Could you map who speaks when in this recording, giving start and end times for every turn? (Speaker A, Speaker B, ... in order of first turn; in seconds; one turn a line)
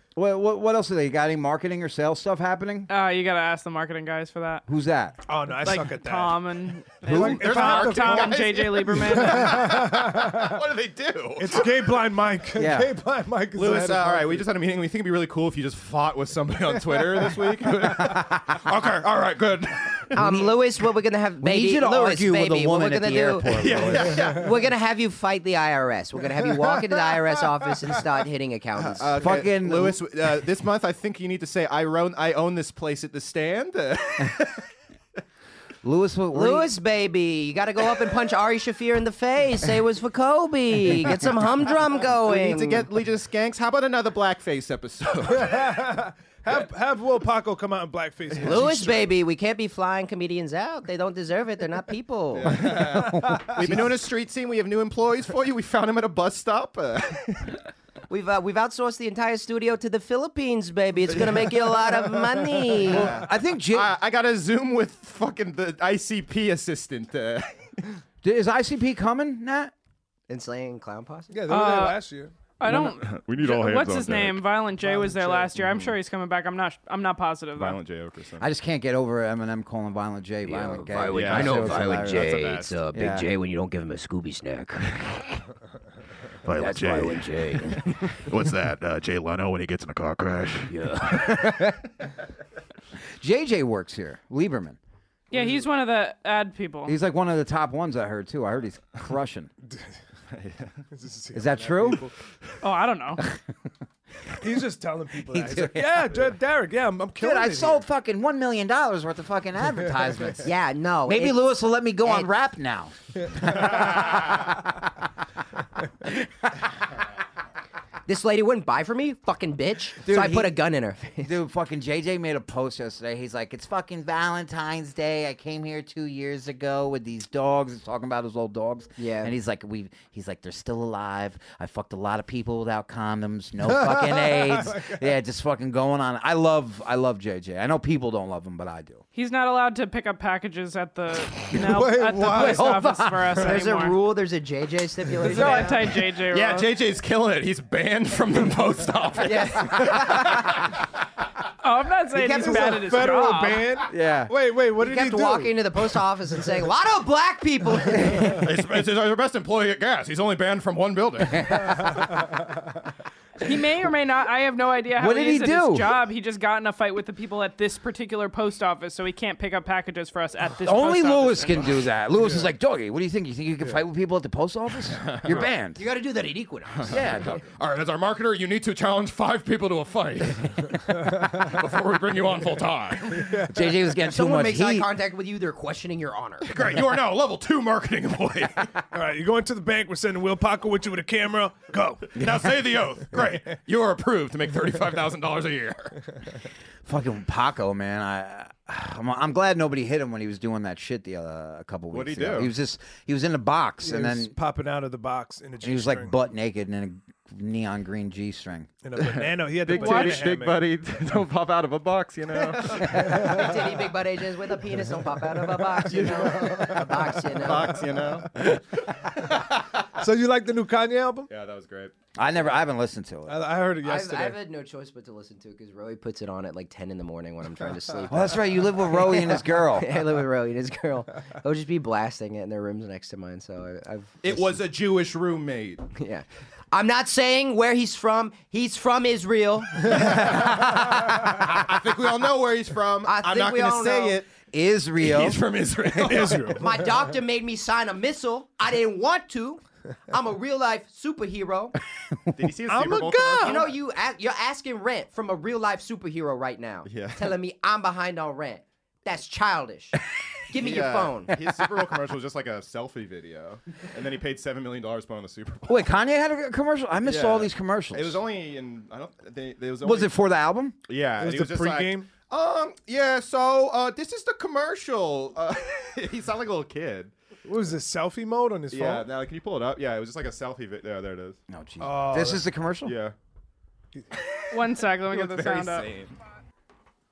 Speaker A: 0.1-2.9
Speaker B: 2.9-4.6
Speaker A: 4.7-5.2
Speaker C: 5.3-6.4
Speaker B: 5.6-9.4
Speaker C: 7.0-8.4
Speaker A: 7.0-7.5
Speaker D: 7.1-11.9
Speaker C: 9.0-10.6
Speaker C: 11.4-14.5
Speaker A: 12.6-12.9
Speaker D: 13.5-20.4
Speaker C: 16.9-17.4
Speaker E: 20.1-29.2
Speaker A: 20.2-20.6
Speaker A: 21.4-24.3
Speaker D: 23.5-24.5
Speaker D: 28.8-34.6
Speaker A: 29.2-30.0
Speaker A: 35.8-36.7
Speaker E: 36.3-42.9
Speaker D: 42.0-45.6
Speaker C: 45.3-49.1
Speaker E: 48.4-52.7
Speaker D: 52.4-57.6
Speaker C: 52.6-53.6
Speaker A: 52.9-53.8
Speaker E: 58.1-63.1
Speaker D: 61.2-62.0
Speaker D: 62.9-67.9
Speaker A: 62.9-63.9
Speaker A: 68.2-69.7
Speaker E: 70.3-71.4
Speaker C: 71.3-72.3
Speaker B: 71.5-72.0
Speaker B: 72.6-77.8
Speaker D: 72.7-74.5
Speaker C: 74.8-75.6
Speaker D: 77.6-78.5
Speaker A: 78.4-82.3
Speaker E: 80.5-85.2
Speaker D: 81.1-82.8
Speaker A: 82.9-83.3
Speaker F: 86.4-87.6
Speaker E: 86.5-88.1
Speaker F: 88.1-90.7
Speaker E: 90.7-91.3
Speaker A: 91.1-91.8
Speaker A: 93.2-94.8
Speaker C: 95.3-95.7
Speaker B: 95.3-97.0
Speaker A: 96.8-99.5
Speaker D: 100.3-100.8
Speaker C: 100.9-102.1
Speaker A: 101.3-102.0
Speaker B: 102.6-103.2
Speaker C: 104.4-107.8
Speaker A: 105.3-106.3
Speaker A: 107.2-110.5
Speaker E: 110.4-111.4
Speaker A: 111.1-114.9
Speaker A: 116.0-116.7
Speaker E: 118.1-121.3
Speaker A: 120.0-120.7
Speaker A: 121.2-139.0
Speaker E: 129.0-129.3
Speaker C: 133.7-135.0
Speaker B: 139.2-144.0
Speaker C: 141.4-143.7
Speaker A: 141.8-143.4
Speaker E: 143.4-145.8
Speaker A: 145.2-146.0
Speaker B: 145.4-146.7
Speaker D: 146.3-150.6
Speaker E: 149.2-150.6
Speaker B: 151.6-153.6
Speaker E: 152.2-152.7
Speaker C: 152.4-156.0
Speaker A: 153.9-154.3
Speaker E: 154.8-158.3
Speaker A: 157.9-158.4
Speaker D: 158.2-161.9
Speaker A: 161.3-161.7
Speaker B: 163.4-171.8
Speaker A: 164.9-165.9
Speaker A: 170.6-175.8
Speaker D: 175.0-175.5
Speaker E: 175.8-177.1
Speaker D: 176.8-183.3
Speaker A: 176.9-177.4
Speaker C: 181.0-181.5
Speaker C: 183.2-183.6
Speaker A: 183.5-184.9
Speaker E: 184.1-186.5
Speaker D: 186.5-188.7
Speaker C: 188.9-192.2
Speaker D: 192.1-196.1
Speaker A: 192.2-193.2
Speaker A: 196.8-204.3
Speaker D: 201.9-202.5
Speaker C: 203.8-206.1
Speaker A: 205.6-208.7
Speaker C: 208.8-210.6
Speaker D: 209.0-213.4
Speaker B: 209.8-210.2
Speaker A: 212.6-213.3
Speaker E: 213.2-217.8
Speaker D: 215.9-216.9
Speaker C: 216.2-219.1
Speaker D: 217.4-218.4
Speaker C: 219.9-221.3
Speaker D: 221.3-221.9
Speaker A: 222.2-223.4
Speaker C: 223.3-224.4
Speaker E: 223.8-234.4
Speaker A: 228.1-230.0
Speaker D: 234.2-235.9
Speaker E: 235.9-240.6
Speaker D: 239.8-244.3
Speaker E: 243.1-244.2
Speaker A: 244.5-245.4
Speaker D: 245.0-246.6
Speaker C: 246.1-246.7
Speaker E: 246.6-251.8
Speaker D: 252.3-253.7
Speaker C: 252.7-253.7
Speaker E: 253.4-261.3
Speaker D: 256.9-257.3
Speaker D: 260.5-265.9
Speaker A: 265.7-268.2
Speaker D: 267.0-270.1
Speaker A: 269.8-270.8
Speaker D: 270.9-277.1
Speaker C: 271.2-272.1
Speaker C: 277.4-279.1
Speaker D: 278.7-281.4
Speaker A: 281.5-282.9
Speaker C: 281.8-282.4
Speaker D: 282.9-283.1
Speaker D: 284.3-286.2
Speaker B: 284.5-285.9